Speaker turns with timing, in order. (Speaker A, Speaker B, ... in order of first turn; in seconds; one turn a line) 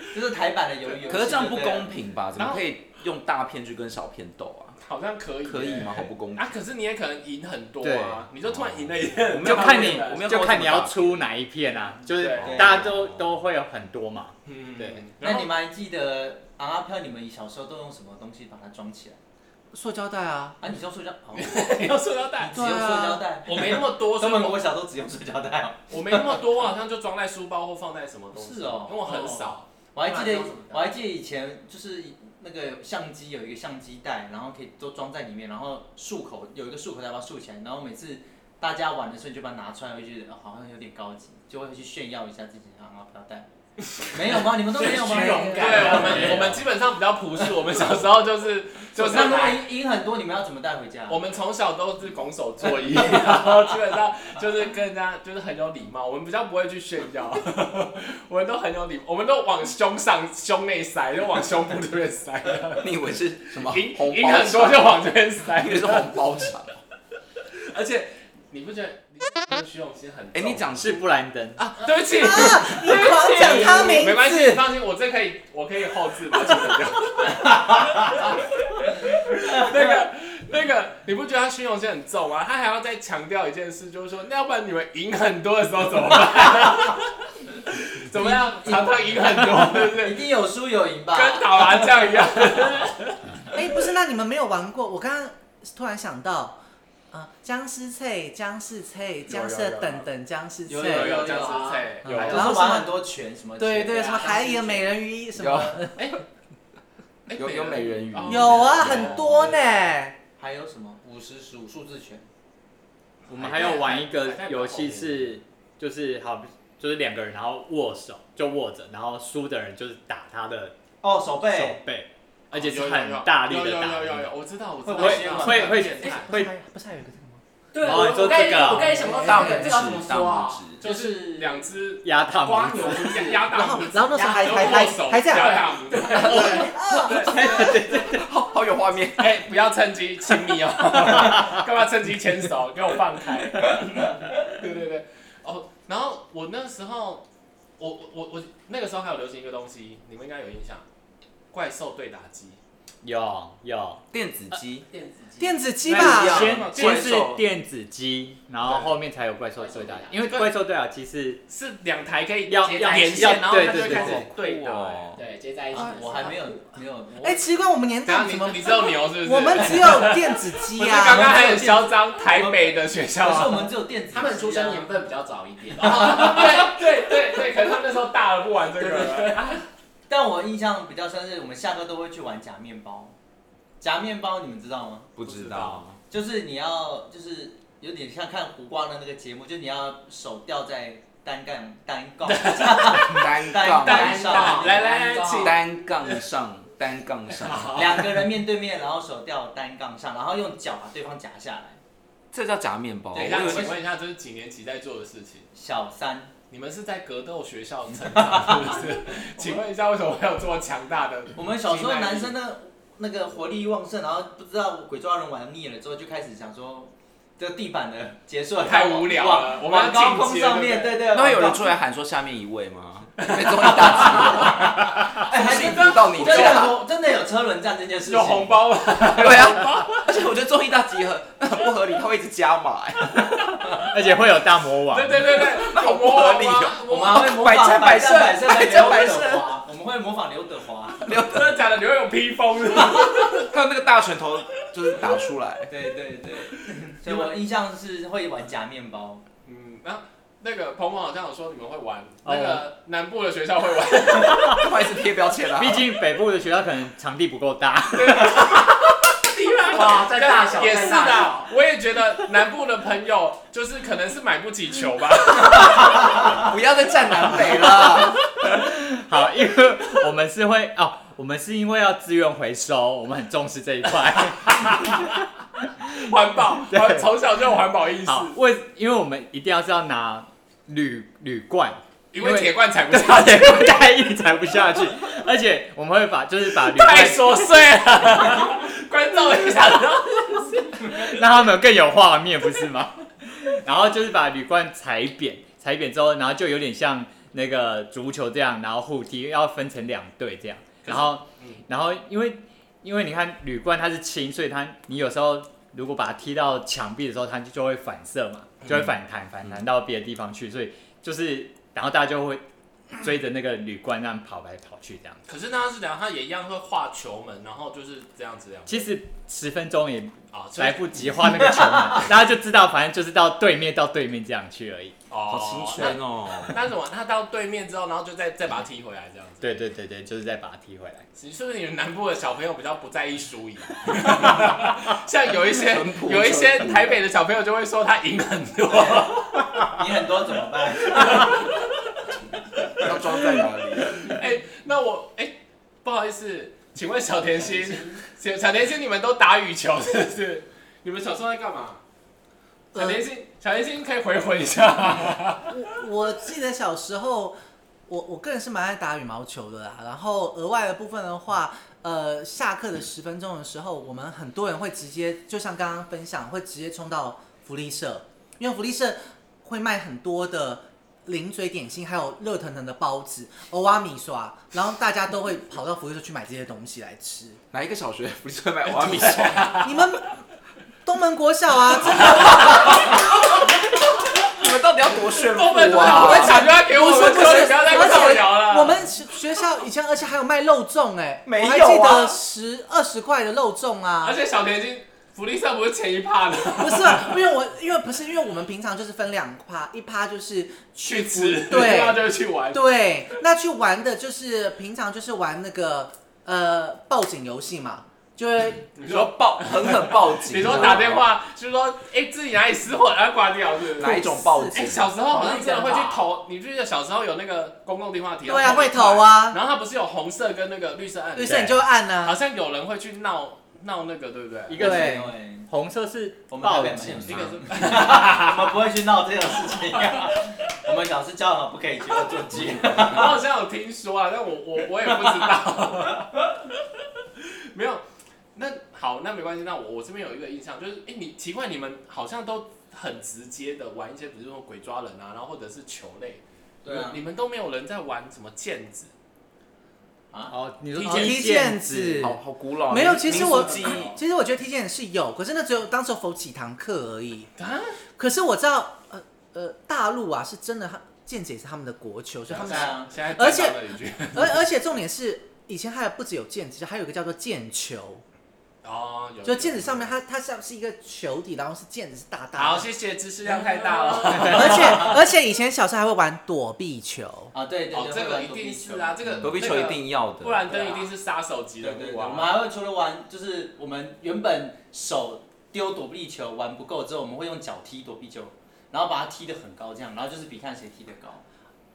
Speaker A: 0.1-1.9
Speaker B: 1.1-4.8
Speaker C: 2.4-2.6
Speaker C: 4.8-10.3
Speaker B: 5.4-6.6
Speaker D: 7.8-8.3
Speaker B: 8.5-11.3
Speaker D: 9.4-15.0
Speaker C: 12.1-12.9
Speaker B: 12.4-13.3
Speaker A: 12.4-12.7
Speaker C: 14.5-15.5
Speaker A: 15.2-19.2
Speaker E: 19.7-20.6
Speaker A: 20.6-26.4
Speaker C: 21.4-22.6
Speaker E: 22.5-23.3
Speaker C: 23.4-24.6
Speaker C: 25.9-29.7
Speaker A: 28.3-43.5
Speaker F: 29.1-29.4
Speaker F: 30.0-30.9
Speaker A: 44.0-46.6
Speaker F: 44.7-46.5
Speaker C: 44.8-49.6
Speaker A: 49.0-51.2
Speaker C: 51.1-63.0
Speaker B: 62.8-66.8
Speaker C: 63.5-66.2
Speaker C: 67.5-71.0
Speaker B: 70.3-71.0
Speaker D: 70.8-71.7
Speaker C: 71.6-87.1
Speaker E: 72.1-74.7
Speaker C: 87.7-90.3
Speaker A: 88.2-91.9
Speaker C: 91.1-93.2
Speaker E: 93.5-96.6
Speaker E: 97.1-101.4
Speaker C: 99.3-100.1
Speaker A: 100.7-104.7
Speaker C: 100.8-102.6
Speaker F: 101.3-102.0
Speaker E: 102.1-103.0
Speaker E: 103.6-106.1
Speaker F: 103.9-104.8
Speaker B: 105.4-105.9
Speaker C: 107.3-109.6
Speaker B: 107.3-109.6
Speaker E: 108.2-110.2
Speaker A: 110.4-112.3
Speaker D: 113.3-120.8
Speaker C: 113.3-115.4
Speaker A: 121.0-121.8
Speaker D: 121.4-124.3
Speaker C: 122.5-126.3
Speaker A: 124.8-126.2
Speaker D: 124.9-126.5
Speaker E: 126.0-127.4
Speaker F: 127.7-131.6
Speaker D: 127.8-129.1
Speaker E: 128.9-129.8
Speaker B: 129.1-130.8
Speaker C: 130.8-137.4
Speaker A: 130.8-131.1
Speaker D: 132.0-133.3
Speaker F: 132.5-133.5
Speaker E: 133.5-135.7
Speaker F: 134.0-136.8
Speaker B: 136.1-139.4
Speaker E: 136.2-137.8
Speaker D: 137.4-137.8
Speaker C: 139.2-147.2
Speaker C: 147.8-150.8
Speaker C: 151.5-152.6
Speaker D: 153.0-154.0
Speaker B: 154.1-154.9
Speaker F: 154.9-155.8
Speaker E: 155.4-156.6
Speaker B: 155.9-157.5
Speaker D: 155.9-161.4
Speaker C: 156.2-157.1
Speaker C: 158.6-158.9
Speaker F: 159.6-160.3
Speaker C: 161.5-165.1
Speaker D: 162.5-164.3
Speaker F: 162.8-163.5
Speaker B: 163.6-165.2
Speaker F: 165.1-166.3
Speaker E: 165.7-166.5
Speaker A: 165.7-167.4
Speaker E: 167.2-171.7
Speaker C: 168.1-173.7
Speaker A: 171.1-174.9
Speaker F: 174.1-177.5
Speaker A: 175.8-176.5
Speaker C: 175.8-179.6
Speaker F: 178.8-179.6
Speaker A: 180.1-183.2
Speaker A: 183.8-185.1
Speaker B: 185.2-186.0
Speaker C: 185.2-185.8
Speaker A: 186.1-195.3
Speaker C: 192.3-193.2
Speaker B: 193.0-194.3
Speaker F: 193.8-195.5
Speaker C: 193.8-195.6
Speaker B: 195.4-197.8
Speaker C: 197.4-198.1
Speaker A: 197.7-201.8
Speaker B: 202.3-203.7
Speaker C: 203.1-205.5
Speaker A: 203.2-203.8
Speaker A: 205.5-206.3
Speaker C: 206.5-212.3
Speaker A: 208.1-208.8
Speaker A: 209.4-209.6
Speaker A: 211.4-221.7
Speaker C: 218.6-221.0
Speaker B: 221.1-226.8
Speaker C: 223.2-224.5
Speaker A: 223.7-228.6
Speaker C: 225.5-226.7
Speaker C: 228.1-230.1
Speaker B: 229.2-233.3
Speaker D: 233.8-235.4
Speaker C: 234.9-237.2
Speaker B: 235.3-239.6
Speaker A: 236.9-241.1
Speaker B: 241.0-241.6
Speaker C: 241.1-243.5
Speaker B: 243.4-245.7
Speaker A: 245.7-249.2
Speaker C: 249.5-254.7
Speaker D: 252.2-252.7
Speaker B: 254.5-255.8
Speaker D: 255.6-258.5
Speaker C: 257.9-266.2
Speaker F: 259.7-261.5
Speaker B: 266.2-268.2
Speaker D: 268.4-275.2
Speaker C: 274.5-275.0
Speaker D: 275.8-276.1
Speaker C: 275.9-278.4
Speaker D: 276.6-277.1
Speaker D: 278.1-287.5
Speaker C: 282.1-283.9
Speaker C: 286.6-291.0
Speaker D: 290.8-312.4
Speaker C: 300.9-301.6
Speaker D: 313.0-315.2
Speaker C: 315.3-318.9
Speaker D: 318.7-324.9
Speaker C: 320.3-321.3
Speaker C: 325.1-329.6
Speaker B: 325.3-326.6
Speaker D: 329.4-331.1
Speaker C: 331.2-339.6
Speaker B: 335.5-337.0
Speaker A: 339.6-341.4
Speaker C: 340.9-341.6
Speaker B: 342.8-344.1
Speaker C: 344.0-351.8
Speaker E: 352.8-353.0
Speaker C: 352.8-355.5
Speaker E: 355.5-357.4
Speaker E: 357.9-377.4
Speaker B: 377.5-379.7
Speaker C: 378.6-379.9
Speaker E: 379.6-380.1
Speaker E: 380.9-383.0
Speaker C: 382.2-382.4
Speaker B: 384.2-386.5
Speaker C: 385.1-388.9
Speaker E: 385.8-394.2
Speaker B: 391.2-392.2
Speaker C: 394.0-397.2
Speaker E: 396.6-409.1
Speaker C: 400.8-402.9
Speaker C: 408.8-414.0
Speaker B: 408.9-411.1
Speaker E: 410.5-410.8
Speaker B: 413.8-414.9
Speaker E: 413.8-414.6
Speaker C: 414.6-424.8
Speaker F: 415.1-416.0
Speaker E: 418.3-419.4
Speaker E: 421.2-422.2
Speaker D: 421.2-421.6
Speaker D: 424.5-427.5
Speaker A: 424.5-425.5
Speaker E: 424.6-425.1
Speaker A: 426.3-433.2
Speaker C: 427.0-428.5
Speaker C: 432.7-436.3
Speaker C: 437.2-437.8
Speaker C: 438.4-448.9
Speaker A: 446.6-447.0
Speaker A: 450.1-450.4
Speaker D: 450.3-452.1
Speaker C: 450.7-451.2
Speaker E: 450.8-457.3
Speaker B: 451.9-453.9
Speaker F: 453.1-453.9
Speaker C: 457.4-457.8
Speaker E: 458.0-468.0
Speaker C: 462.3-464.5
Speaker A: 462.3-462.9
Speaker C: 468.6-469.9
Speaker E: 469.2-472.7
Speaker C: 472.4-475.0
Speaker E: 473.3-477.3
Speaker A: 474.4-474.9
Speaker A: 477.3-478.9
Speaker C: 477.7-482.4
Speaker B: 479.2-480.5
Speaker A: 480.5-480.9
Speaker A: 481.6-491.2